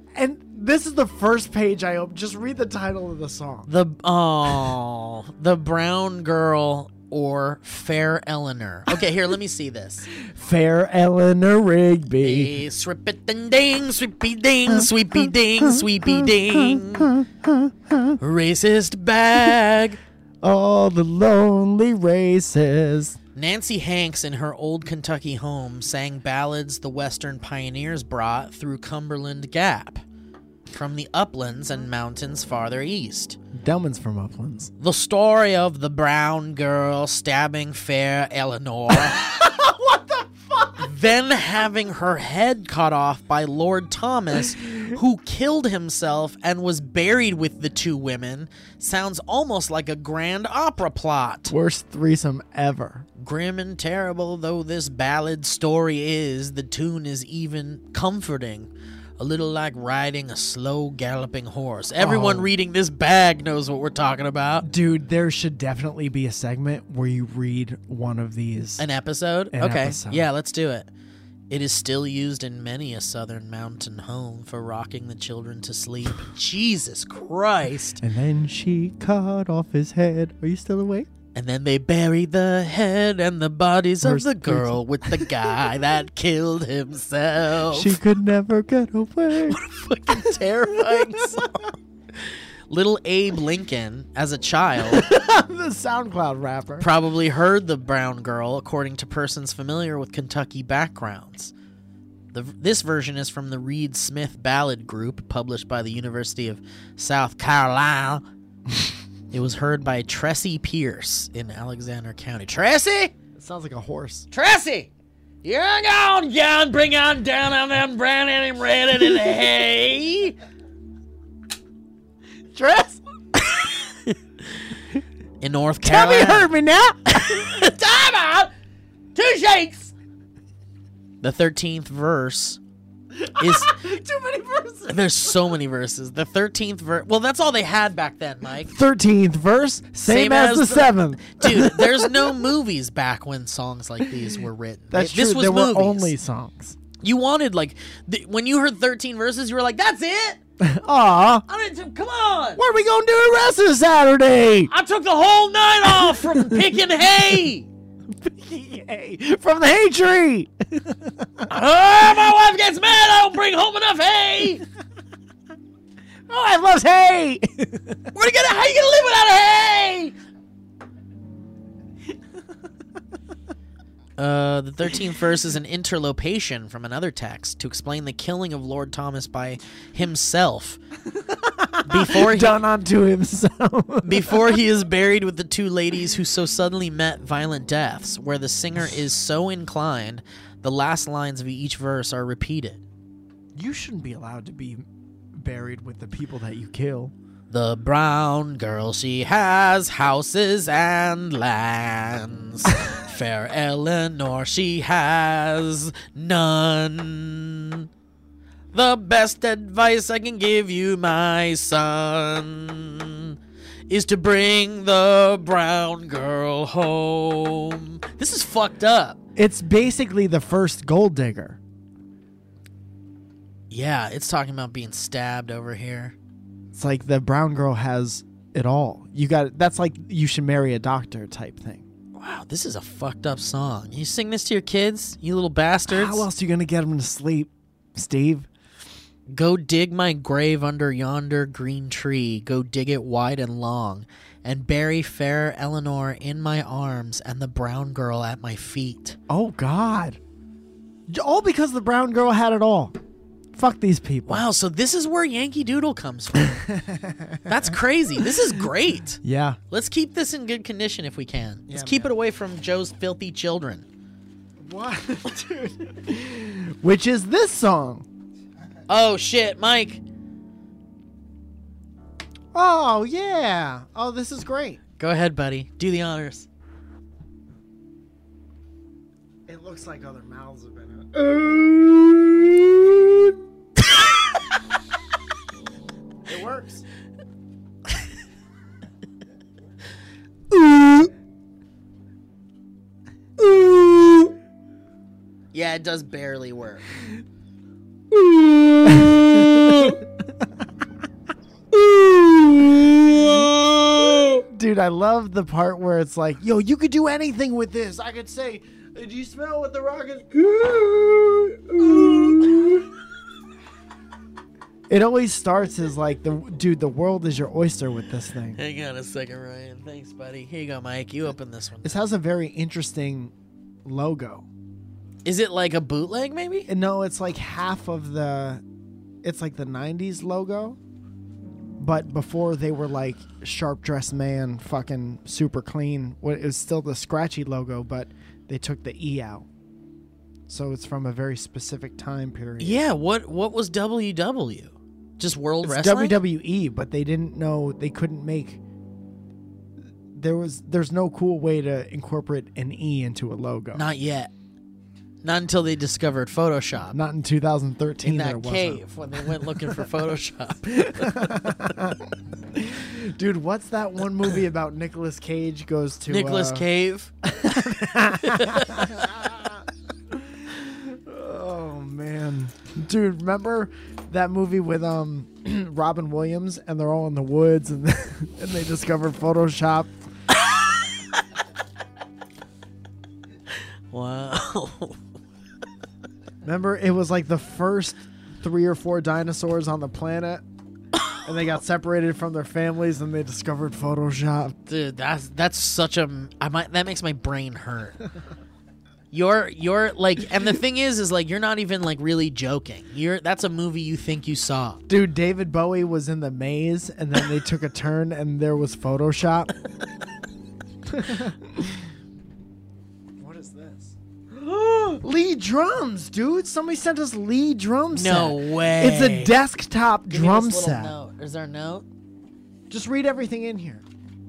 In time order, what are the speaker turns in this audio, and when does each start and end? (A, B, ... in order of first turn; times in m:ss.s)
0:00.1-0:03.7 A
0:03.7-0:10.1 B
0:10.1-0:12.6 A
0:12.2-0:17.2 B
0:15.6-0:18.2 A
0:18.2-0:20.0 B
0:20.4-0:23.2 A
0:23.4-0:30.0 B
0:30.7-0:33.4 B
0:33.5-0:34.7 A
0:34.8-0:39.2 B
0:38.9-0:40.9 A
0:40.8-0:51.5 B
0:51.5-0:53.1 A
0:53.2-1:04.7 B
1:02.0-1:02.5 A
1:04.6-1:08.9 A
1:08.8-1:10.9 B
1:09.5-1:10.3 A
1:11.5-1:18.0 B
1:18.0-1:21.1 A
1:21.3-1:28.0 B
1:24.0-1:25.4 A
1:27.7-1:29.6 A
1:29.5-1:35.1 B
1:30.1-1:31.6 A
1:34.8-1:36.9 A
1:36.8-1:41.5 B
1:42.3-1:48.2 B
1:49.3-1:53.1 B
1:53.4-1:54.3 A
1:54.3-1:54.9 B
1:55.4-2:00.4 B
2:02.5-2:03.0 A
2:05.4-2:06.5 B
2:05.8-2:07.6 A
2:07.1-2:08.5 B
2:09.1-2:09.9 B
2:11.2-2:12.6 B
2:13.1-2:15.5 A
2:13.4-2:13.8 B
2:14.9-2:18.7 B
2:18.6-2:22.5 A
2:20.0-2:26.1 B
2:24.9-2:26.8 A
2:27.0-2:30.4 B
2:30.6-2:31.4 A
2:31.5-2:32.6 B
2:32.6-2:34.7 A
2:34.7-2:37.7 B
2:35.8-2:37.4 A
2:38.1-2:41.5 A
2:41.5-2:44.6 B
2:46.3-2:48.1 A
2:48.1-2:50.1 B
2:54.2-3:00.8 B
3:01.1-3:04.6 A
3:01.8-3:02.6 B
3:04.0-3:12.8 B
3:13.6-3:17.1 A
3:17.5-3:27.9 B
3:28.7-3:33.4 B
3:33.9-3:39.2 B
3:39.4-3:41.6 A
3:43.7-3:46.1 B
3:46.7-3:51.8 A
3:52.2-3:56.3 B
3:55.9-3:58.5 A
3:59.3-4:09.2 B
4:09.3-4:10.2 A
4:11.1-4:12.9 A
4:13.5-4:14.4 A
4:14.3-4:16.6 B
4:16.4-4:18.4 A
4:17.4-4:23.8 B
4:19.2-4:19.6 A
4:21.7-4:22.1 A
4:24.6-4:28.1 A
4:28.9-4:30.0 B
4:32.5-4:34.8 A
4:35.0-4:36.5 B
4:39.5-4:43.4 A
4:46.2-4:46.8 A
4:53.4-4:54.3 A
4:55.5-4:56.8 B
4:58.8-5:00.1 A
4:58.8-5:00.0 B
5:01.7-5:03.6 A
5:03.1-5:04.4 B
5:04.3-5:12.9 A
5:14.9-5:18.6 A
5:18.6-5:22.1 B
5:21.8-5:23.3 A
5:23.8-5:24.5 A
5:25.2-5:26.7 B
5:26.7-5:28.6 A
5:29.2-5:30.8 A
5:31.8-5:39.5 A
5:40.5-5:42.8 A
5:42.6-5:46.2 B
5:45.6-5:48.6 A
5:50.1-5:53.8 A
5:53.7-5:54.3 B
5:55.2-5:57.0 B
5:56.9-5:59.9 A
5:58.0-6:01.7 B
6:00.6-6:06.7 A
6:06.1-6:07.1 B
6:07.2-6:19.9 A
6:08.0-6:08.9 B
6:20.3-6:21.2 B
6:23.9-6:25.0 B
6:26.4-6:30.4 A
6:31.2-6:34.6 A
6:34.6-6:38.0 B
6:39.1-6:44.8 B
6:44.9-6:49.5 A
6:50.8-6:51.9 A
6:53.2-6:54.0 A
6:54.6-7:00.9 A
6:57.9-6:59.3 B
7:00.1-7:01.8 B
7:02.7-7:03.8 A